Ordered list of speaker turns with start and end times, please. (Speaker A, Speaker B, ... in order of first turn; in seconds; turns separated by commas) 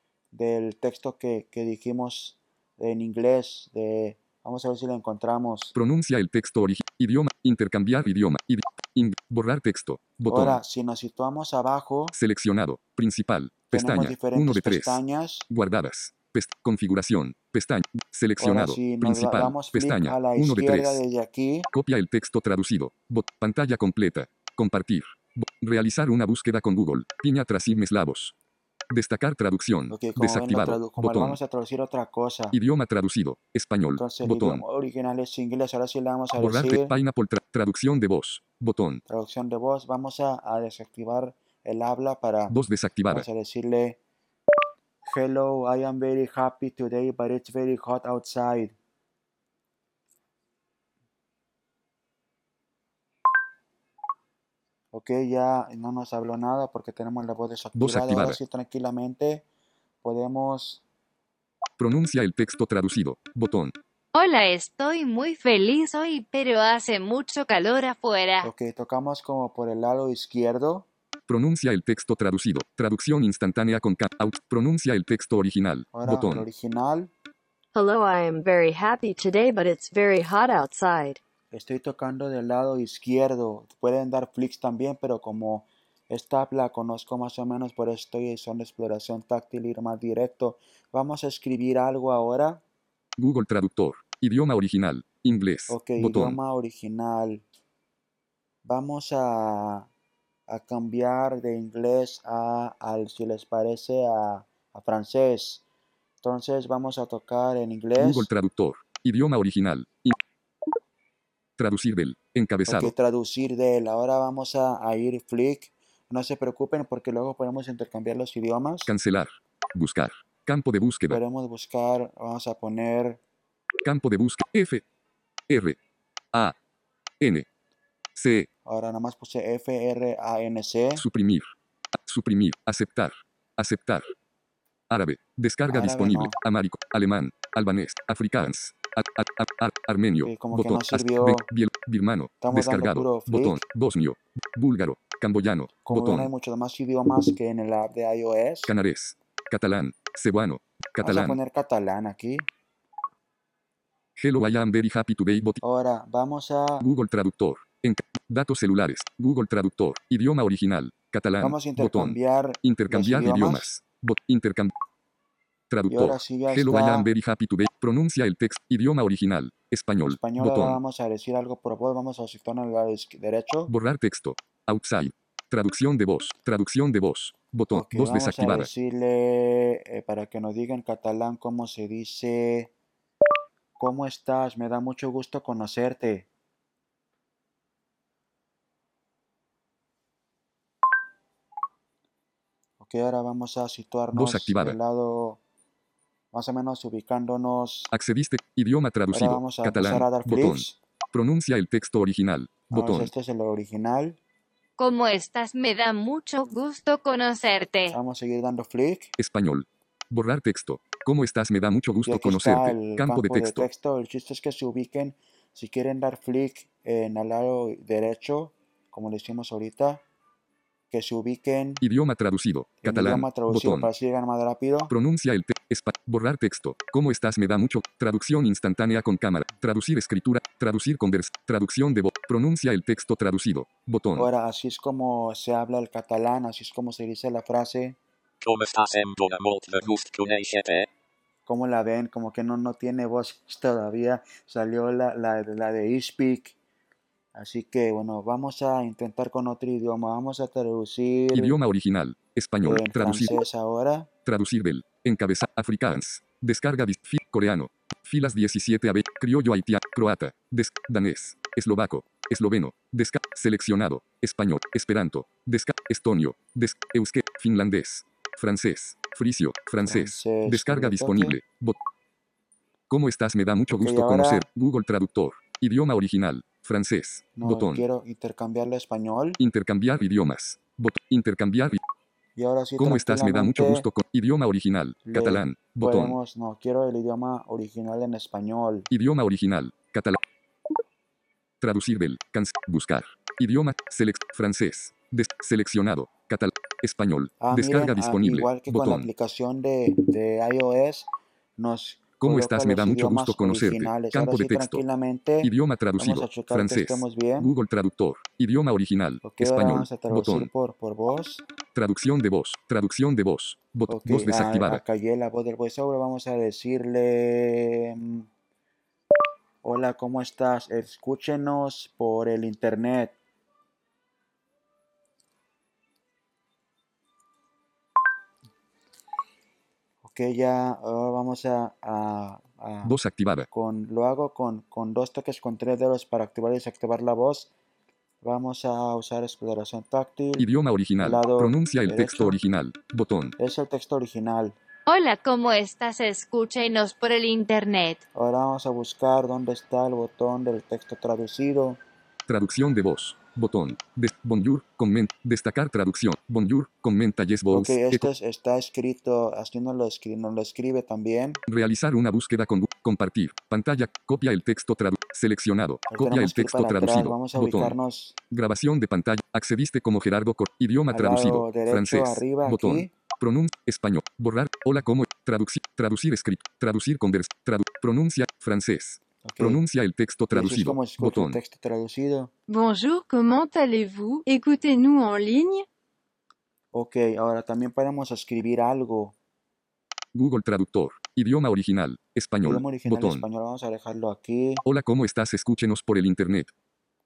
Speaker A: 0.3-5.7, Speaker B: 5.7-10.6, Speaker A: 10.3-12.2, Speaker B: 12.1-21.0, Speaker A: 13.7-15.5, Speaker A: 18.4-21.7, Speaker B: 21.7-28.4, Speaker B: 28.9-31.4, Speaker A: 29.9-32.6, Speaker B: 32.5-34.6, Speaker A: 34.0-36.9, Speaker B: 36.3-39.0, Speaker A: 39.1-42.6, Speaker B: 42.5-43.3, Speaker A: 43.1-44.0, Speaker A: 45.0-48.8, Speaker A: 54.9-59.5, Speaker B: 57.8-58.4, Speaker A: 60.0-60.8, Speaker B: 61.8-63.8, Speaker C: 64.1-68.5, Speaker A: 68.4-70.9, Speaker B: 71.3-76.5, Speaker A: 75.9-77.1, Speaker D: 77.7-81.2, Speaker A: 81.5-92.6, Speaker B: 93.2-96.4, Speaker A: 95.7-97.4, Speaker A: 98.6-99.9, Speaker A: 100.5-105.6, Speaker A: 106.2-108.3, Speaker B: 108.0-110.2, Speaker B: 111.6-112.9, Speaker A: 112.7-118.9, Speaker B: 118.9-121.2, Speaker A: 121.1-123.2, Speaker B: 123.8-124.8, Speaker B: 125.5-125.8, Speaker B: 127.2-127.5, Speaker B: 128.2-128.5, Speaker A: 128.7-131.1, Speaker B: 131.0-134.1, Speaker B: 134.9-146.3, Speaker A: 135.7-136.3, Speaker A: 140.2-141.5, Speaker A: 142.4-143.6, Speaker A: 145.8-148.7, Speaker B: 148.7-151.4, Speaker A: 151.0-152.5, Speaker B: 154.2-155.6, Speaker A: 155.6-156.9, Speaker B: 156.8-164.7, Speaker A: 161.4-163.7, Speaker B: 165.7-170.8, Speaker A: 165.9-167.1, Speaker A: 170.1-173.7, Speaker B: 173.7-178.7, Speaker A: 177.7-182.7, Speaker A: 183.8-186.3, Speaker A: 192.8-195.4, Speaker B: 194.1-194.8, Speaker A: 196.3-197.9, Speaker B: 197.9-203.1, Speaker A: 199.1-200.8, Speaker A: 202.7-204.2, Speaker C: 204.8-208.0, Speaker A: 207.9-209.1, Speaker B: 209.2-213.7, Speaker A: 212.1-220.0, Speaker A: 220.9-221.8, Speaker B: 221.8-223.9, Speaker A: 222.8-224.9, Speaker B: 224.9-234.3, Speaker A: 234.2-238.0, Speaker E: 238.4-240.9, Speaker A: 241.5-246.6, Speaker A: 247.3-251.6, Speaker B: 251.3-253.4, Speaker A: 252.6-254.1, Speaker B: 254.2-271.8, Speaker A: 269.8-271.4, Speaker B: 272.9-277.9, Speaker A: 273.7-274.5, Speaker A: 277.4-279.4, Speaker B: 279.4-281.8, Speaker A: 282.4-283.9, Speaker B: 282.8-286.2, Speaker A: 285.1-288.9, Speaker B: 288.9-290.2, Speaker B: 291.6-299.1, Speaker A: 297.4-307.5, Speaker B: 302.2-304.8, Speaker B: 305.4-310.5, Speaker A: 309.2-311.4, Speaker B: 311.8-314.8, Speaker A: 313.9-318.3, Speaker A: 319.6-323.2, Speaker A: 330.0-333.0, Speaker B: 332.9-333.5, Speaker A: 333.5-337.5, Speaker A: 338.2-340.5, Speaker B: 340.4-343.4, Speaker A: 341.0-342.4, Speaker A: 343.4-344.6, Speaker C: 344.9-348.0, Speaker A: 348.1-351.8, Speaker B: 352.3-358.1, Speaker A: 357.5-361.4, Speaker B: 361.5-367.8, Speaker A: 365.9-368.2, Speaker B: 368.3-381.4, Speaker A: 370.9-372.9, Speaker A: 379.2-379.6, Speaker A: 380.3-382.3, Speaker F: 382.5-385.7, Speaker A: 386.7-389.1, Speaker B: 390.1-393.2, Speaker A: 392.4-394.6, Speaker B: 394.6-396.5